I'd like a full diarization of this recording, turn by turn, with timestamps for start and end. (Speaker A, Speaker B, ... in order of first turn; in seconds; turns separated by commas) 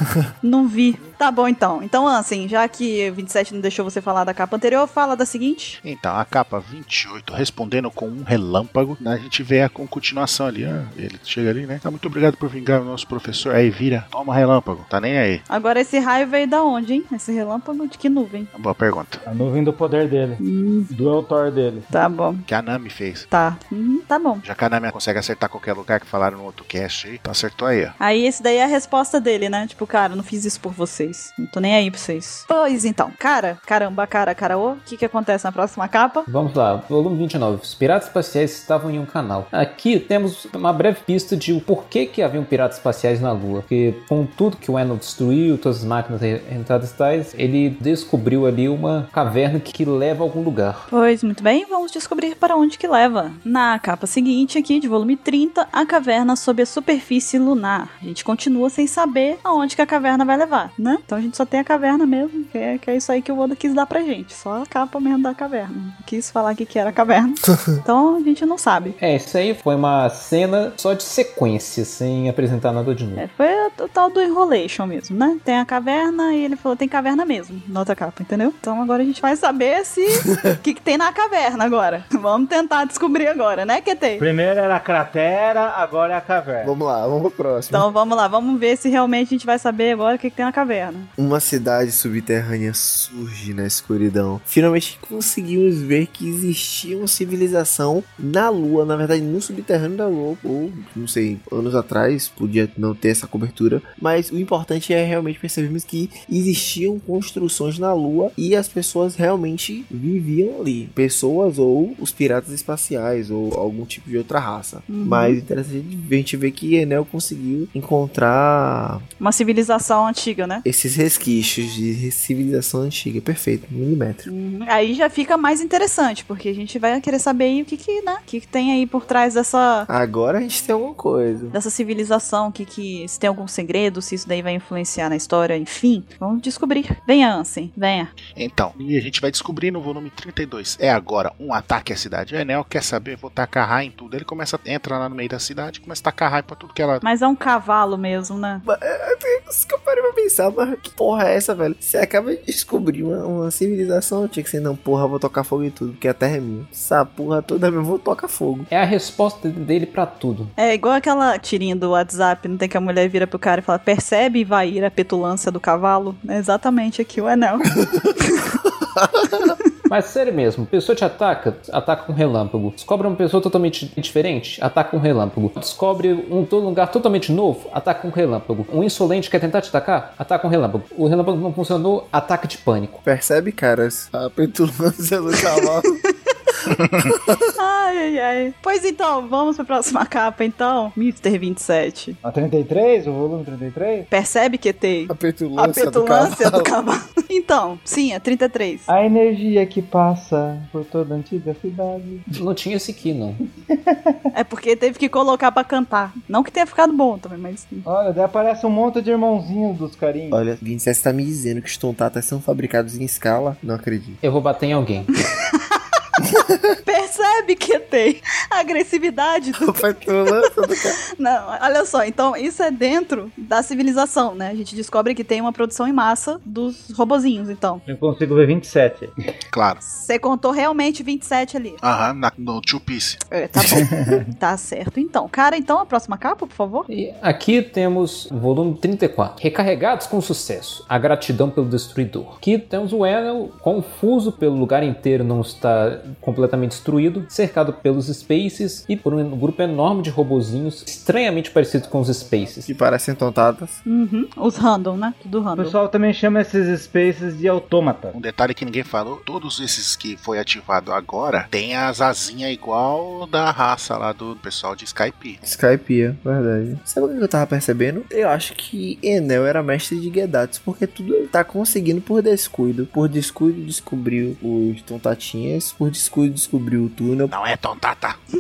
Speaker A: 0.4-5.8, Speaker B: 5.8-15.4, Speaker A: 15.5-18.5, Speaker B: 18.5-19.2, Speaker C: 19.2-21.9, Speaker A: 20.4-20.9, Speaker A: 21.9-22.5, Speaker B: 22.5-23.3, Speaker A: 23.3-24.4, Speaker B: 24.4-27.9, Speaker A: 28.0-36.3, Speaker D: 36.3-50.9, Speaker A: 50.9-69.0, Speaker D: 69.0-73.2, Speaker A: 73.2-84.2, Speaker C: 84.2-86.7, Speaker E: 86.6-87.9, Speaker A: 87.7-91.1, Speaker E: 91.2-119.0, Speaker A: 114.9-115.4, Speaker A: 119.2-120.7, Speaker E: 120.7-124.3, Speaker A: 124.3-129.9, Speaker E: 129.9-131.6, Speaker A: 131.5-138.1, Speaker B: 138.3-147.0, Speaker A: 147.0-148.7, Speaker E: 148.7-158.7, Speaker D: 158.7-160.5, Speaker A: 160.6-167.7, Speaker E: 169.0-169.5, Speaker D: 169.9-183.1, Speaker E: 183.1-186.0, Speaker E: 186.7-187.5, Speaker A: 187.6-192.2, Speaker C: 192.2-194.1, Speaker A: 194.1-198.9, Speaker E: 195.1-196.7, Speaker C: 198.9-202.4, Speaker D: 202.3-203.4, Speaker C: 203.7-204.2, Speaker A: 204.3-207.9, Speaker C: 207.9-210.4, Speaker E: 210.3-214.2, Speaker D: 214.2-215.1, Speaker A: 215.5-215.8, Speaker A: 216.8-219.8, Speaker E: 219.6-221.0, Speaker A: 221.2-227.8, Speaker C: 227.9-229.1, Speaker B: 229.5-229.8, Speaker A: 229.8-231.8, Speaker B: 231.8-233.2, Speaker A: 233.3-236.9, Speaker C: 233.8-234.3, Speaker D: 236.9-252.7, Speaker E: 252.7-253.8, Speaker A: 253.9-255.8, Speaker C: 255.6-258.2, Speaker B: 258.1-265.4, Speaker E: 265.4-277.3, Speaker B: 277.3-278.2